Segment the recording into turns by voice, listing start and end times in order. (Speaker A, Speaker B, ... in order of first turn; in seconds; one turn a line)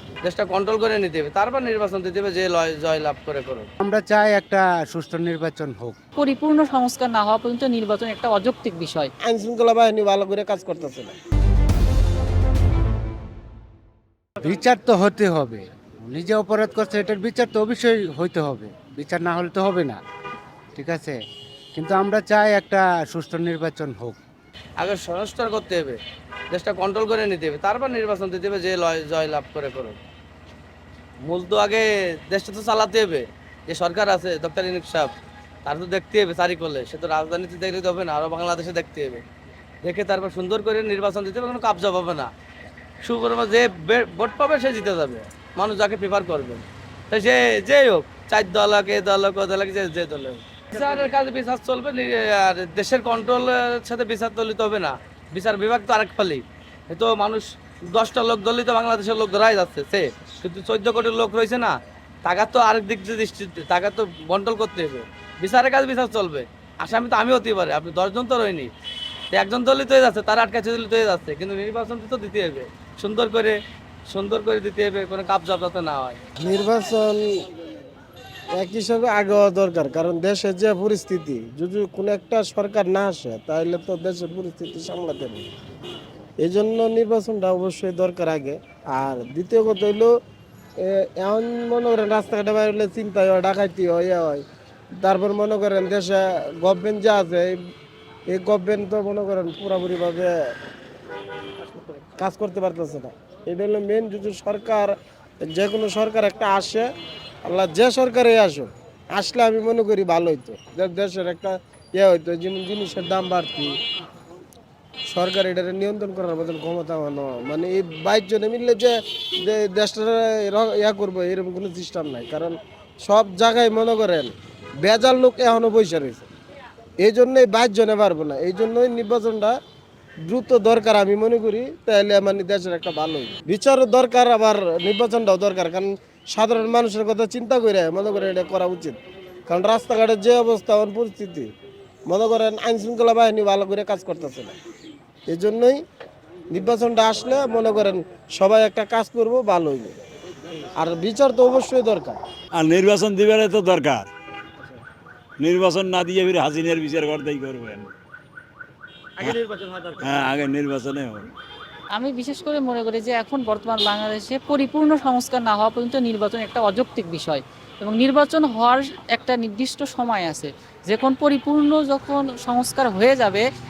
Speaker A: 0.2-3.7
Speaker B: 3.8-6.0
Speaker C: 6.2-9.1
Speaker D: 9.2-11.2
Speaker B: 14.4-20.0
Speaker B: 20.8-21.2
Speaker B: 21.8-24.2
Speaker A: 24.8-26.0
Speaker A: 26.5-30.0
Speaker A: 31.3-35.1
Speaker A: 35.7-39.2
Speaker A: 39.9-42.3
Speaker A: 43.0-68.7
Speaker A: 69.3-73.6
Speaker A: 74.1-76.2
Speaker D: 76.4-77.5
Speaker D: 78.5-85.5
Speaker D: 86.4-90.1
Speaker D: 90.8-94.4
Speaker D: 95.0-97.6
Speaker D: 98.3-100.5
Speaker D: 102.2-106.9
Speaker D: 107.5-113.8
Speaker D: 115.1-126.3
Speaker D: 127.0-129.6
Speaker D: 130.3-139.0
Speaker D: 139.5-141.5
Speaker D: 142.1-144.6
Speaker D: 145.3-145.8
Speaker D: 146.5-150.0
Speaker D: 150.8-152.2
Speaker E: 152.6-154.1
Speaker E: 155.4-157.9
Speaker A: 159.2-160.0
Speaker E: 160.0-161.3
Speaker C: 161.9-173.4